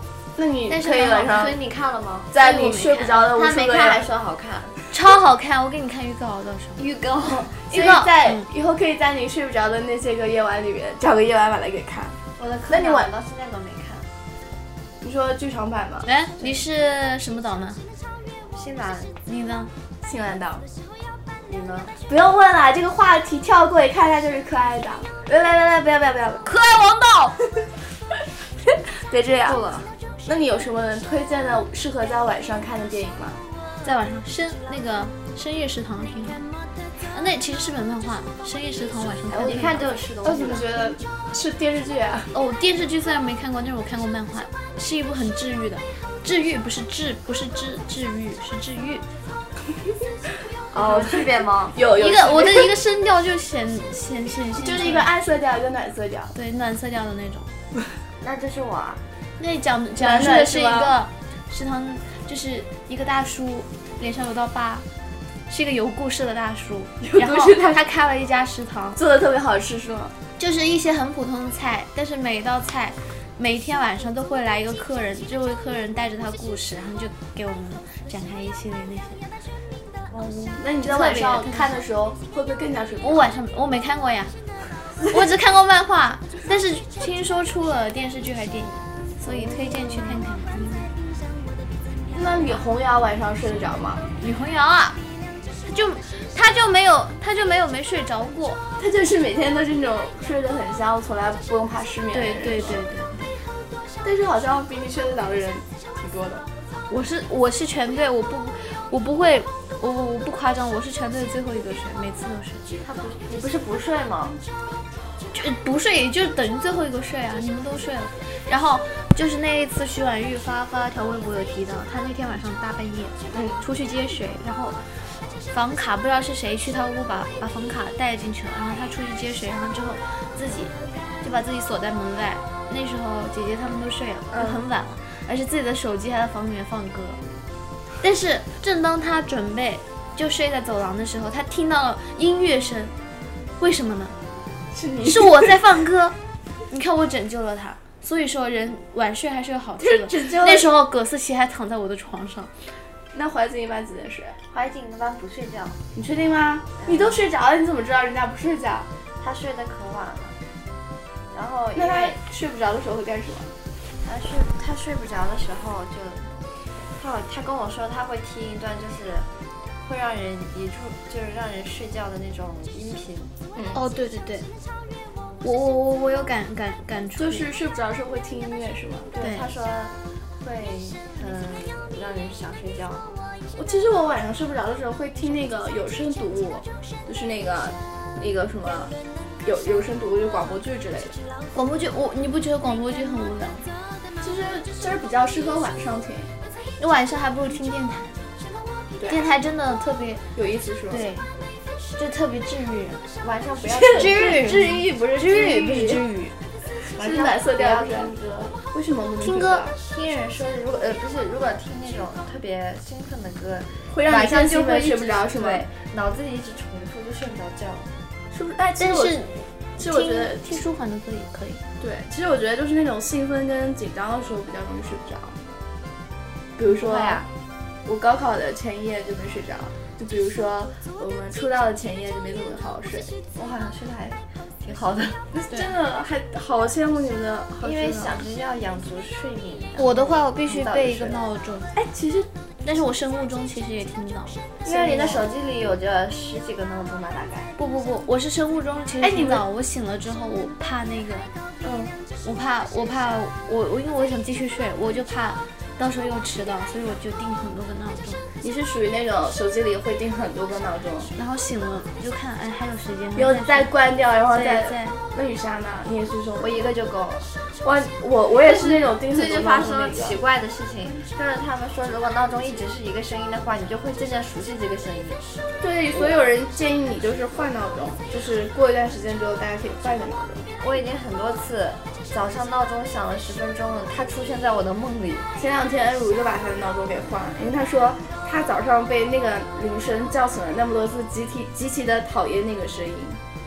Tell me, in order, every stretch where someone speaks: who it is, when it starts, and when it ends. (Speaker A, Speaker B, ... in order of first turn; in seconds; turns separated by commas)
Speaker A: 0.3-1.6, Speaker B: 0.7-1.4, Speaker C: 1.3-2.3, Speaker A: 2.3-4.1, Speaker B: 2.4-3.3, Speaker C: 3.3-4.8, Speaker B: 4.9-6.8, Speaker C: 6.8-7.6, Speaker A: 7.2-12.2, Speaker B: 7.6-8.5, Speaker C: 12.4-14.1, Speaker A: 12.7-13.1, Speaker A: 15.0-16.1, Speaker B: 16.0-17.8, Speaker C: 18.5-19.1, Speaker B: 19.2-19.7, Speaker A: 20.0-20.6, Speaker C: 21.5-21.9, Speaker A: 22.1-26.5, Speaker B: 26.4-27.4, Speaker A: 29.0-29.6, Speaker C: 29.4-29.9, Speaker A: 30.2-33.4, Speaker B: 33.8-36.5, Speaker B: 37.1-40.0, Speaker C: 39.3-40.9, Speaker A: 40.2-42.3, Speaker B: 42.3-49.0, Speaker B: 50.7-51.1, Speaker C: 50.7-51.8, Speaker A: 51.7-52.7, Speaker B: 51.9-55.1, Speaker A: 54.6-56.3, Speaker B: 56.3-57.5, Speaker C: 58.2-59.0, Speaker B: 59.4-64.8, Speaker A: 60.0-61.0, Speaker B: 65.5-69.0, Speaker A: 67.0-67.8, Speaker A: 68.9-70.1, Speaker B: 70.4-79.2, Speaker C: 80.1-80.6, Speaker A: 80.6-83.3, Speaker B: 80.7-81.7, Speaker B: 83.0-84.3, Speaker B: 85.0-90.9, Speaker C: 89.3-89.8, Speaker A: 92.1-94.0, Speaker B: 94.2-95.0, Speaker B: 95.6-98.6, Speaker A: 98.8-102.9, Speaker B: 102.1-103.4, Speaker A: 104.0-106.4, Speaker B: 106.9-112.6, Speaker C: 112.8-114.4, Speaker B: 115.3-125.0, Speaker A: 123.3-123.6, Speaker B: 125.5-137.2, Speaker A: 134.3-134.6, Speaker B: 138.0-142.9, Speaker B: 143.6-144.2, Speaker A: 144.7-145.8, Speaker B: 145.0-146.2, Speaker B: 146.7-152.5, Speaker A: 149.8-150.7, Speaker A: 153.1-154.4, Speaker C: 154.5-155.8, Speaker A: 155.9-158.9, Speaker C: 156.8-157.2, Speaker C: 159.2-160.4, Speaker C: 161.3-162.2, Speaker A: 161.7-163.5, Speaker C: 164.0-166.3, Speaker C: 166.9-169.3, Speaker C: 169.8-173.3, Speaker A: 173.5-173.8, Speaker B: 173.7-174.5, Speaker B: 175.4-177.4, Speaker A: 177.1-179.1, Speaker C: 179.1-183.1, Speaker B: 179.2-179.5, Speaker A: 183.5-188.9, Speaker A: 189.4-191.2, Speaker B: 191.5-193.7, Speaker A: 194.2-196.3, Speaker B: 196.8-198.2, Speaker A: 198.9-199.2, Speaker B: 199.1-200.2, Speaker A: 200.3-201.1, Speaker B: 200.9-201.3, Speaker B: 201.9-203.0, Speaker C: 203.2-204.6, Speaker A: 203.6-206.0, Speaker B: 203.9-206.3, Speaker A: 206.8-209.8, Speaker C: 207.0-208.5, Speaker B: 209.2-209.7, Speaker C: 209.8-217.9, Speaker A: 213.9-215.7, Speaker A: 218.3-219.2, Speaker B: 218.8-221.6, Speaker A: 219.8-220.6, Speaker A: 221.8-225.4, Speaker A: 226.6-227.3, Speaker C: 226.7-227.3, Speaker A: 227.8-233.1, Speaker C: 233.3-235.2, Speaker A: 235.3-238.2, Speaker C: 237.6-241.2, Speaker B: 239.8-241.7, Speaker A: 241.7-242.3, Speaker B: 242.6-245.2, Speaker C: 244.6-247.5, Speaker B: 247.6-251.3, Speaker A: 249.0-249.4, Speaker A: 251.6-251.9, Speaker B: 252.2-258.2, Speaker A: 258.4-261.1, Speaker B: 261.1-263.7, Speaker A: 263.1-266.7, Speaker B: 264.3-265.0, Speaker C: 266.4-267.3, Speaker A: 267.6-270.2, Speaker C: 268.4-275.2, Speaker A: 275.6-280.5, Speaker C: 280.6-285.3, Speaker A: 285.4-293.2